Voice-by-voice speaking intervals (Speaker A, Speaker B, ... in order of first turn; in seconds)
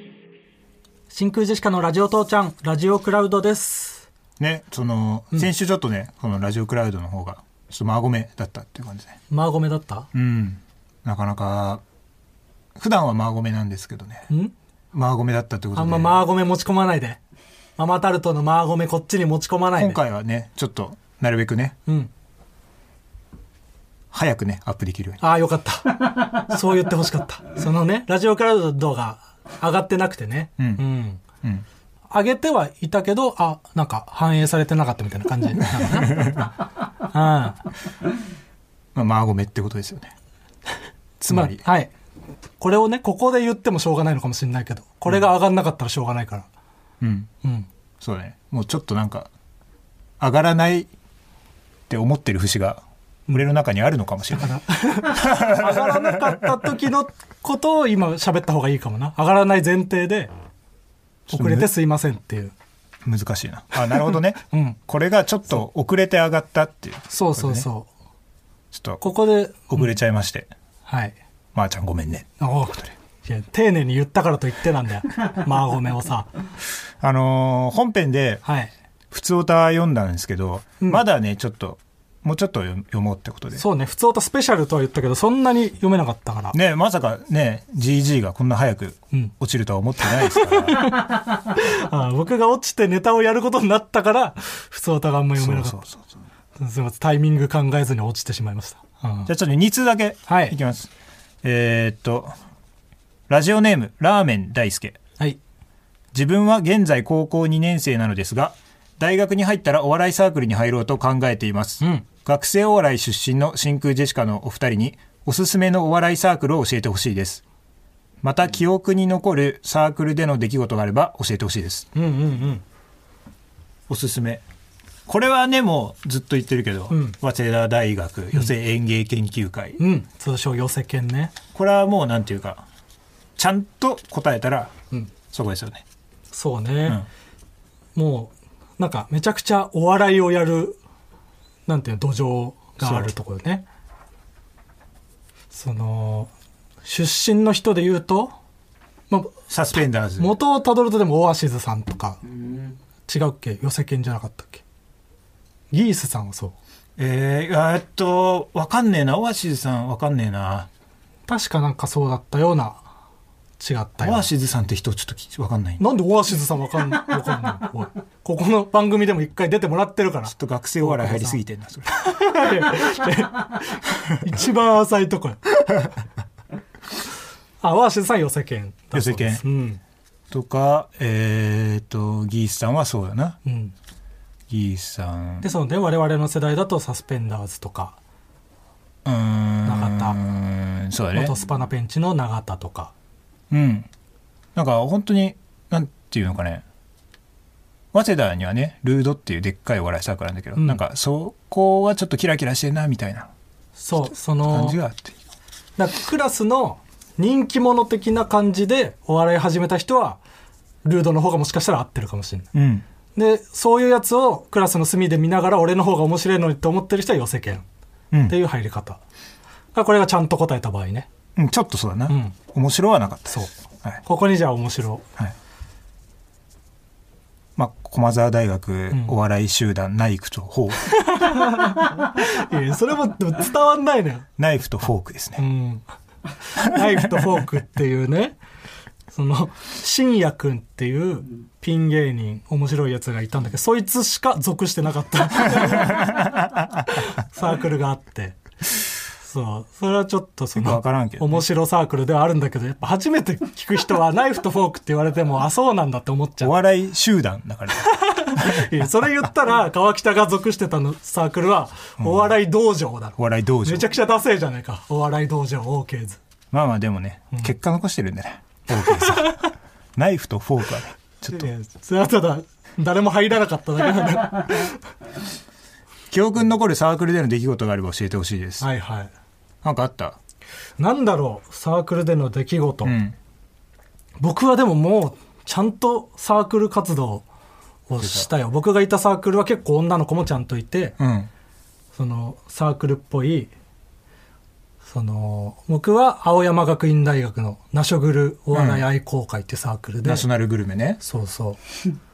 Speaker A: 1.1-4.1, 9.3-10.1, 14.3-14.5, 15.7-17.2, 17.8-20.0, 21.9-22.1, 25.2-31.2, 32.1-36.5, 37.0-37.6, 41.3-41.9, 42.6-46.5, 47.4-47.7, 54.4-60.3, 61.3-62.5, 63.7-64.8, 67.1-67.9, 69.0-69.9, 70.8-71.1, 72.4-76.3, 78.4-78.7, 83.5-86.6, 90.0-95.8, 96.6-99.3, 100.3-100.5, 111.8-112.0, 121.9-122.6, 126.9-127.2, 129.8-131.3, 136.3-137.1, 137.9-140.8, 141.7-143.6, 145.5-146.3, 146.8-148.3, 149.1-149.4, 150.2-152.2, 153.1-154.6, 155.7-156.6, 161.3-162.8, 163.6-164.3, 165.8-175.6, 177.6-179.8, 183.4-183.7, 185.4-187.9, 189.6-190.2, 191.1-192.9, 200.6-200.8, 203.8-204.8, 205.8-210.2, 210.8-212.5, 213.1-217.6, 218.3-219.0, 219.7-221.1, 222.1-222.3, 224.0-225.1, 228.9-229.2, 230.9-234.3, 235.4-235.8, 236.5-238.4, 239.1-246.2, 246.9-248.4, 249.2-256.5, 257.8-266.2, 268.8-269.2, 271.3-274.8, 278.6-279.1, 280.8-283.0, 284.2-287.2, 287.9-290.9, 291.9-293.5, 294.8-300.3, 301.0-301.6
Speaker B: 4.4-9.2, 10.1-11.8, 12.7-14.3, 14.9-16.2, 19.8-21.8, 24.1-25.2, 30.6-30.8, 35.8-36.3, 38.9-40.1, 41.2-41.6, 47.0-47.3, 48.0-49.3, 50.2-50.9, 51.9-56.4, 61.3-61.7, 63.0-67.7, 68.7-69.0, 69.7-70.5, 71.5-72.4, 77.0-78.4, 79.1-83.6, 86.5-90.9, 95.3-96.1, 99.3-100.9, 101.4-102.3, 103.3-105.0, 106.1-117.4, 118.2-121.9, 123.9-124.4, 125.1-129.8, 131.5-132.6, 133.4-134.7, 135.3-135.8, 142.8-143.1, 149.5-150.4, 157.0-160.7, 164.0-165.8, 170.2-171.9, 178.9-179.4, 180.3-183.4, 184.5-185.5, 189.0-191.4, 193.5-193.9, 194.5-196.6, 197.9-203.3, 204.1-205.2, 212.5-212.8, 221.3-224.0, 227.6-231.0, 234.4-235.4, 245.7-246.3, 250.5-251.4, 256.4-258.8, 262.0-262.4, 263.2-263.9, 266.5-271.5, 276.1-278.7, 279.6-280.2, 282.8-283.1, 288.0-288.3, 291.0-291.3, 298.5-298.9, 300.0-301.0